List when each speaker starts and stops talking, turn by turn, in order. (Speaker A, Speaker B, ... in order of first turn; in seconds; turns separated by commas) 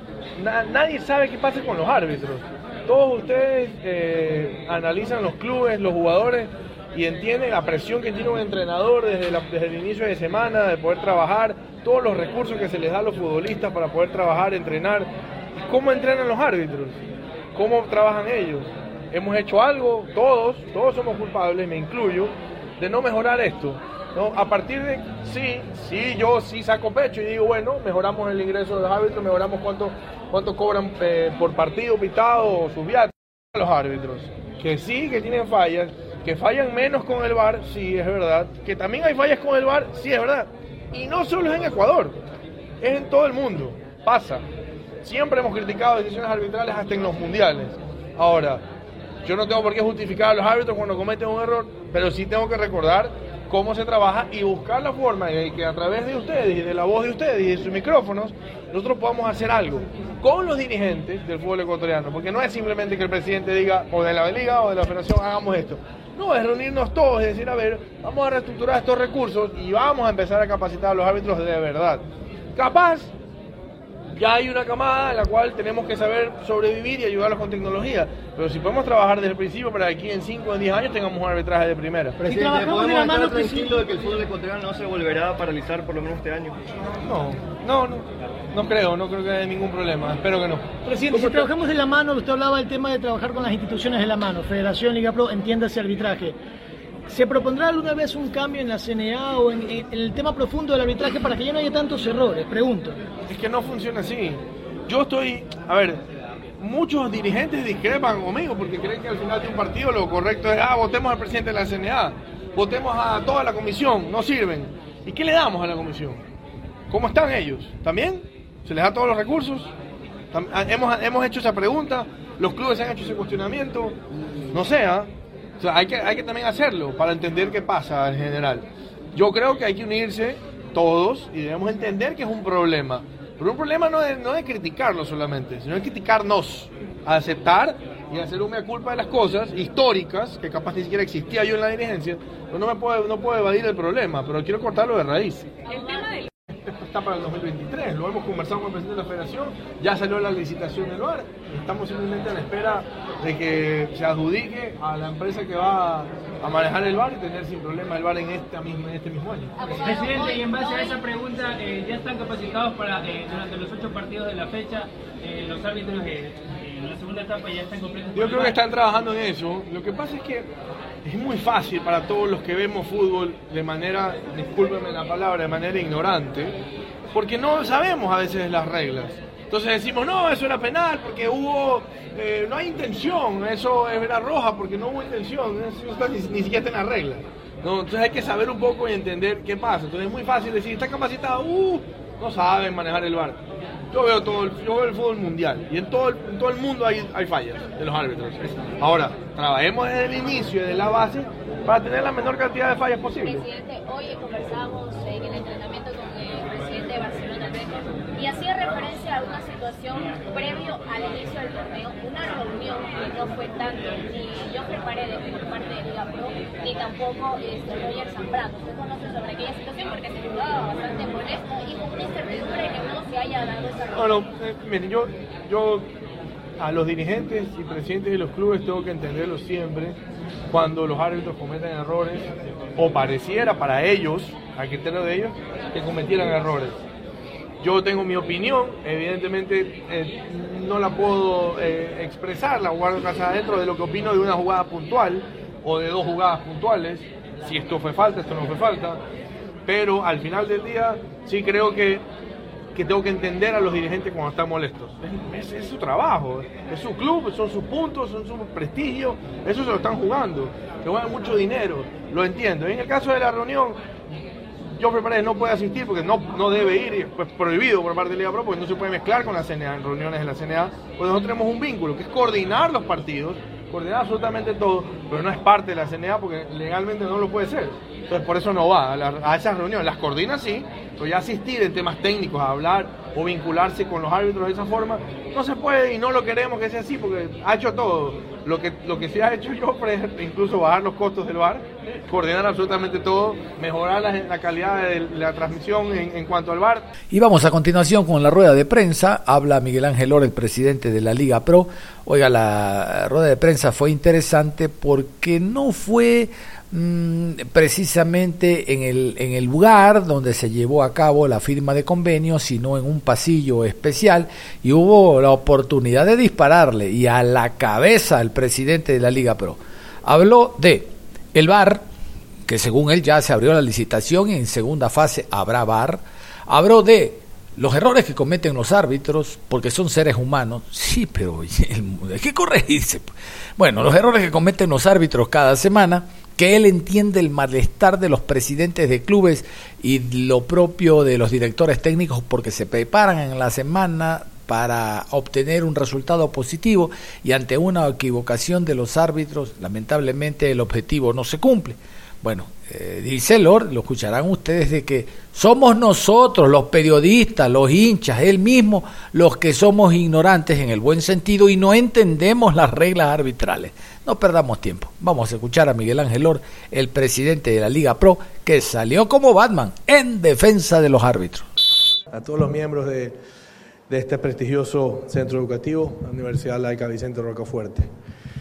Speaker A: 0.3-17.0, Speaker A: 17.5-42.2, Speaker A: 42.8-44.5, Speaker A: 45.0-48.6, Speaker A: 49.2-72.0, Speaker A: 72.5-73.1, Speaker A: 74.2-82.2, Speaker B: 82.2-83.8, Speaker C: 82.2-86.6, Speaker A: 87.0-91.5, Speaker B: 90.8-96.4, Speaker B: 97.1-103.0, Speaker A: 103.3-106.0, Speaker A: 106.6-116.2, Speaker A: 116.9-119.7, Speaker A: 120.3-124.0, Speaker A: 124.5-145.5, Speaker D: 145.7-146.3, Speaker A: 146.7-159.5, Speaker D: 159.8-160.8, Speaker E: 159.8-168.6, Speaker A: 168.1-170.5, Speaker A: 171.0-176.6, Speaker A: 177.1-193.4, Speaker A: 193.9-203.4, Speaker D: 203.2-224.3, Speaker A: 223.9-225.9, Speaker A: 226.6-230.0, Speaker A: 230.5-236.8, Speaker A: 237.6-249.0, Speaker A: 249.7-252.1, Speaker A: 252.7-263.8, Speaker A: 264.8-296.9, Speaker F: 297.1-321.9, Speaker F: 322.5-371.5, Speaker A: 372.1-373.2, Speaker A: 373.9-377.9